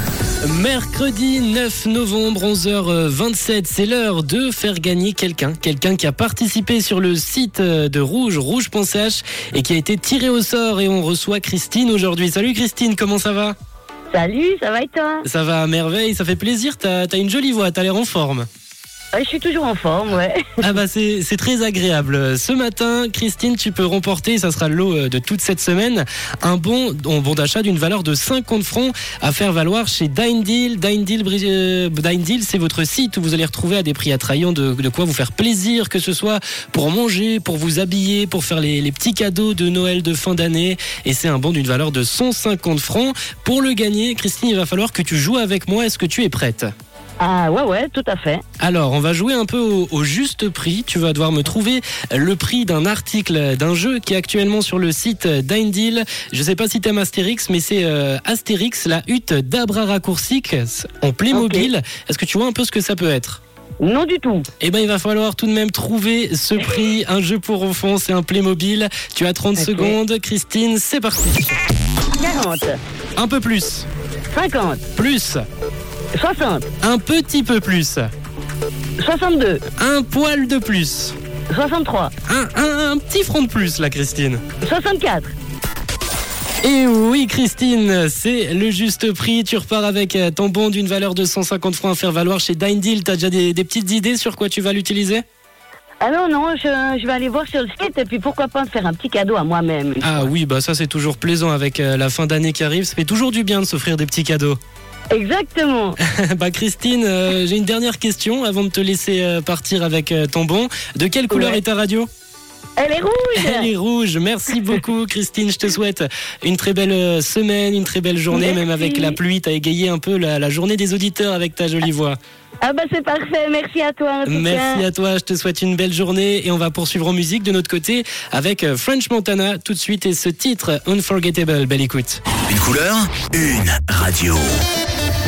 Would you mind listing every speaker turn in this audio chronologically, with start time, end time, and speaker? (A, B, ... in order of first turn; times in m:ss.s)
0:00.5-0:13.6 A
0:14.1-0:15.3 B
0:15.2-0:18.5 A
0:19.1-0:20.6 B
0:20.6-0:46.7 A
0:47.2-0:48.4 B
0:48.6-1:03.4 A
1:01.3-1:01.7 B
1:03.8-1:04.5 B
1:04.6-1:11.6 A
1:09.6-1:10.0 B
1:12.2-1:12.8 B
1:13.2-1:13.9 A
1:14.3-1:14.8 B
1:15.0-1:15.4 A
1:16.1-1:16.7 B
1:16.8-1:18.1 A
1:19.0-1:19.6 B
1:19.8-1:21.2 A
1:21.5-1:22.1 B
1:22.3-1:24.4 A
1:24.6-1:25.3 B
1:26.6-1:35.2 A
1:36.0-1:40.3 B
1:40.0-1:44.6 A
1:45.1-1:46.0 B
1:46.0-1:52.1 A
1:51.3-1:51.6 B
1:52.8-1:53.7 B
1:53.4-2:02.2 A
1:58.3-1:59.2 B
2:02.6-2:04.8 B
2:04.2-2:12.2 A
2:12.5-2:14.6 C